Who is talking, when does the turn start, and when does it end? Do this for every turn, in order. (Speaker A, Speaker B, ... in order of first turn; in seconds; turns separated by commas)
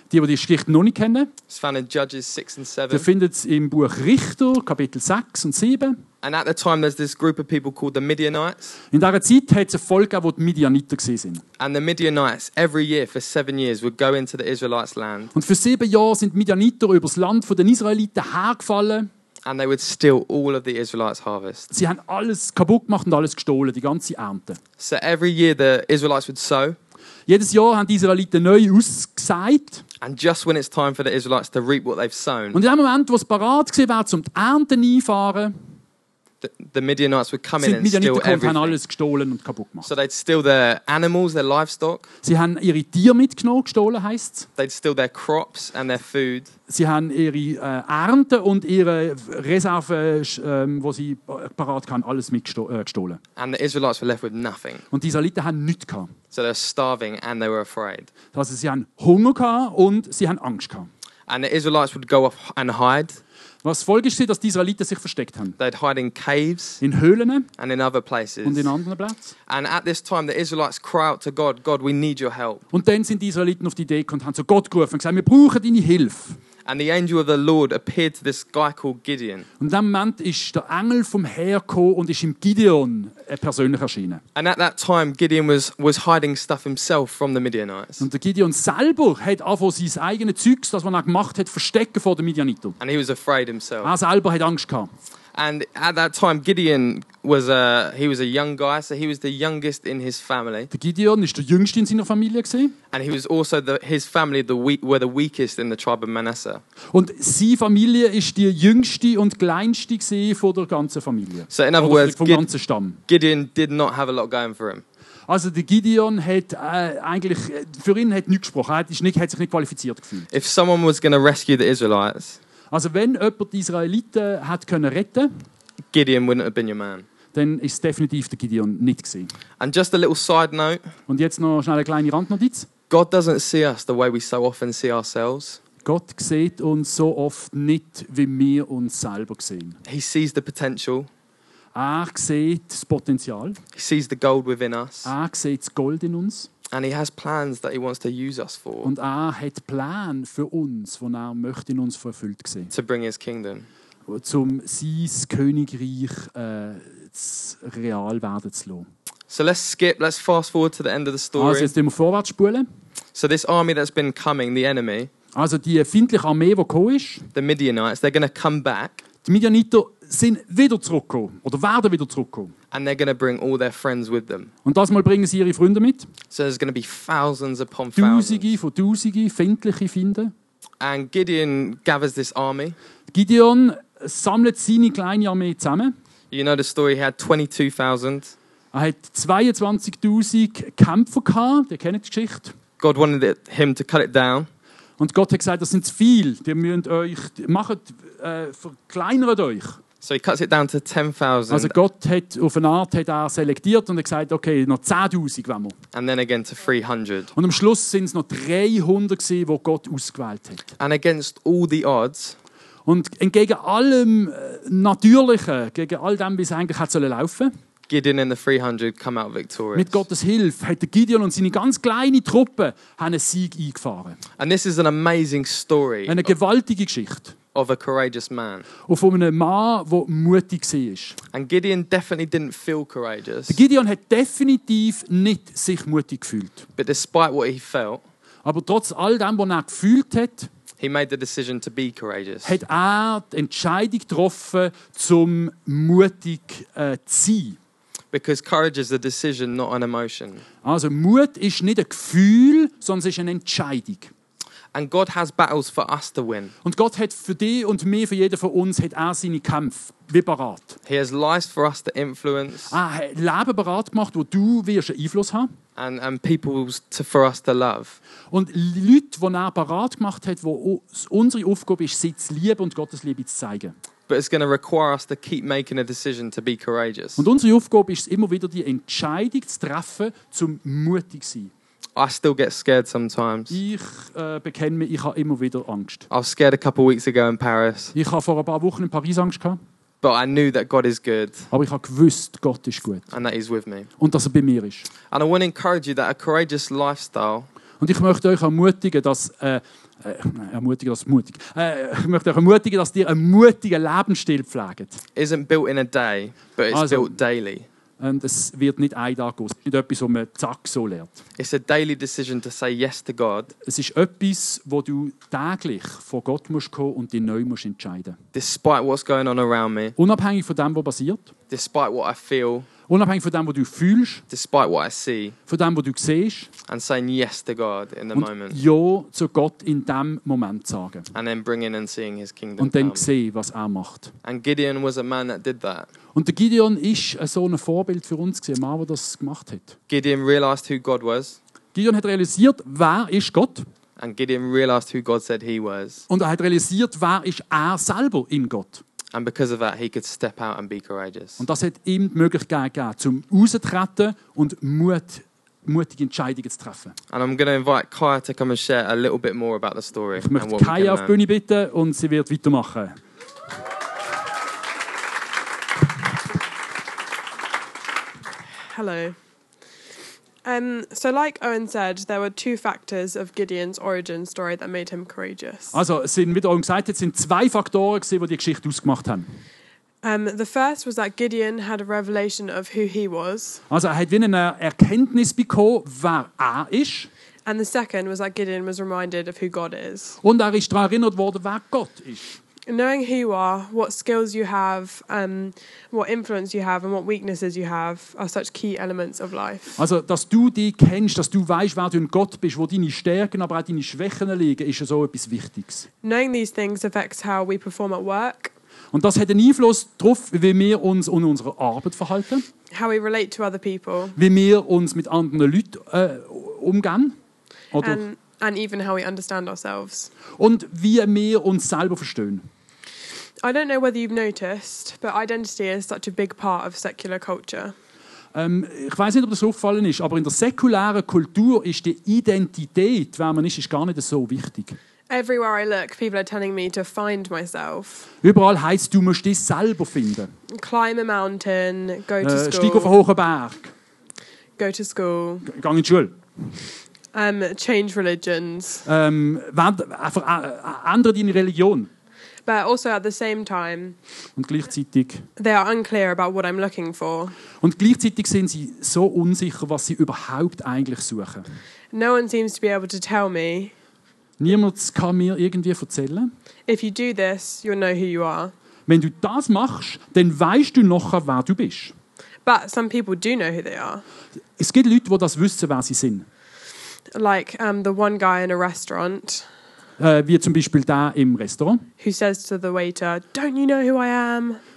Speaker A: 0.1-1.3, Speaker B: 1.5-3.1, Speaker A: 2.9-6.0, Speaker B: 6.2-8.8, Speaker A: 8.9-11.4, Speaker B: 11.6-15.3, Speaker A: 15.3-19.1, Speaker B: 19.4-21.7, Speaker A: 21.7-24.6, Speaker B: 24.8-26.8, Speaker A: 27.3-29.8, Speaker B: 30.0-32.6, Speaker A: 32.5-35.5, Speaker B: 36.4-38.8, Speaker A: 37.6-39.9, Speaker B: 39.8-42.1, Speaker A: 42.2-44.5, Speaker B: 44.6-46.5, Speaker A: 46.7-53.2, Speaker B: 53.4-54.8, Speaker A: 54.9-56.1, Speaker B: 56.3-58.1, Speaker A: 58.3-60.9, Speaker B: 61.3-63.2, Speaker A: 63.6-65.6, Speaker B: 65.6-66.8, Speaker A: 66.8-67.5, Speaker B: 67.6-68.7, Speaker A: 68.4-69.3, Speaker B: 69.5-72.6, Speaker A: 72.7-76.4, Speaker B: 76.6-79.5, Speaker A: 79.6-84.2, Speaker B: 84.3-88.0, Speaker A: 88.0-92.8, Speaker B: 92.8-93.9, Speaker A: 93.8-94.9, Speaker B: 95.3-100.7, Speaker A: 100.7-102.8, Speaker B: 102.9-106.6, Speaker A: 106.9-113.0, Speaker B: 111.5-112.5, Speaker B: 113.1-114.8, Speaker A: 115.3-120.3, Speaker B: 120.3-122.4, Speaker A: 122.7-125.3, Speaker B: 125.9-127.0, Speaker A: 127.3-129.3, Speaker B: 129.6-130.9, Speaker A: 131.1-132.7, Speaker B: 132.9-135.6, Speaker A: 135.8-139.8, Speaker B: 139.8-141.1, Speaker A: 141.7-143.6, Speaker B: 143.7-145.1, Speaker A: 145.0-146.5, Speaker B: 146.7-148.9, Speaker A: 148.8-152.7, Speaker B: 152.7-153.7, Speaker A: 154.1-158.9, Speaker B: 159.3-161.7, Speaker A: 161.4-162.7, Speaker B: 163.1-165.1, Speaker A: 165.3-167.2, Speaker B: 167.3-169.0, Speaker A: 169.2-172.5, Speaker B: 172.7-174.5, Speaker A: 174.6-176.1, Speaker B: 176.3-178.5, Speaker A: 177.9-180.3, Speaker B: 180.8-182.8, Speaker A: 183.1-185.9, Speaker B: 186.3-188.3, Speaker A: 188.7-192.6, Speaker B: 192.8-194.5, Speaker A: 195.0-199.8, Speaker B: 200.0-201.7, Speaker A: 201.5-205.8, Speaker B: 205.9-207.3, Speaker A: 207.3-210.7, Speaker B: 210.8-212.4, Speaker A: 212.8-217.5, Speaker B: 217.9-220.0, Speaker A: 219.7-224.2, Speaker B: 224.4-226.3, Speaker A: 226.1-227.3, Speaker B: 227.5-228.7, Speaker A: 228.9-231.2, Speaker B: 231.3-233.6, Speaker A: 233.5-236.7, Speaker B: 236.8-238.0, Speaker A: 238.4-240.5, Speaker B: 240.8-242.6, Speaker A: 242.4-247.6, Speaker B: 248.1-250.4, Speaker A: 250.6-254.1, Speaker B: 254.7-256.5, Speaker A: 256.6-260.8, Speaker B: 260.9-262.7, Speaker A: 262.7-265.5, Speaker B: 265.8-268.0, Speaker A: 268.3-273.7, Speaker B: 274.1-277.2, Speaker A: 277.2-281.5, Speaker B: 281.9-283.5, Speaker A: 283.5-286.1, Speaker B: 286.1-287.9, Speaker A: 287.9-289.6, Speaker B: 290.0-291.5, Speaker A: 291.5-293.1, Speaker B: 293.1-293.9, Speaker A: 294.0-294.9, Speaker B: 295.1-297.5, Speaker A: 297.8-305.0, Speaker B: 305.1-307.6, Speaker A: 306.7-307.2, Speaker A: 308.0-311.2, Speaker B: 311.4-313.5, Speaker A: 313.6-318.2, Speaker B: 318.3-319.9, Speaker A: 320.0-321.3, Speaker B: 321.5-322.7, Speaker A: 322.9-324.2, Speaker B: 324.3-325.4, Speaker A: 325.5-326.5, Speaker B: 326.7-328.6, Speaker A: 328.1-331.1, Speaker B: 331.1-333.0, Speaker A: 332.6-334.1, Speaker B: 334.2-335.9, Speaker A: 336.1-339.8, Speaker B: 339.9-341.4, Speaker A: 341.7-343.7, Speaker B: 344.0-346.0, Speaker A: 346.1-348.8, Speaker B: 349.1-351.4, Speaker A: 351.4-356.9, Speaker B: 357.1-361.1, Speaker A: 360.2-363.0, Speaker C: 368.7-369.1, Speaker C: 370.4-375.8, Speaker A: 375.7-379.3, Speaker C: 380.0-383.6, Speaker A: 383.7-387.1, Speaker C: 387.4-390.2, Speaker A: 390.2-392.4, Speaker C: 392.7-399.8, Speaker A: 399.8-405.9, Speaker C: 406.0-408.5, Speaker A: 408.9-412.4, Speaker C: 412.7-414.2, Speaker A: 414.1-417.2, Speaker A: 417.7-418.0, Speaker C: 417.8-420.1, Speaker A: 420.4-422.4, Speaker C: 423.4-427.7, Speaker A: 428.3-434.8, Speaker C: 435.1-438.1, Speaker A: 438.2-440.3, Speaker C: 440.5-442.9, Speaker A: 442.2-443.7, Speaker C: 444.6-445.5, Speaker A: 445.4-446.1, Speaker C: 447.1-448.9, Speaker A: 448.9-451.9, Speaker C: 452.4-454.0, Speaker A: 454.4-455.2, Speaker C: 455.4-457.4, Speaker A: 457.6-461.4, Speaker C: 461.9-463.7, Speaker A: 464.4-466.3, Speaker C: 466.7-468.5, Speaker A: 468.9-471.9, Speaker C: 472.4-474.0, Speaker A: 474.6-476.2, Speaker C: 477.1-479.5, Speaker A: 480.0-481.9, Speaker C: 482.0-484.6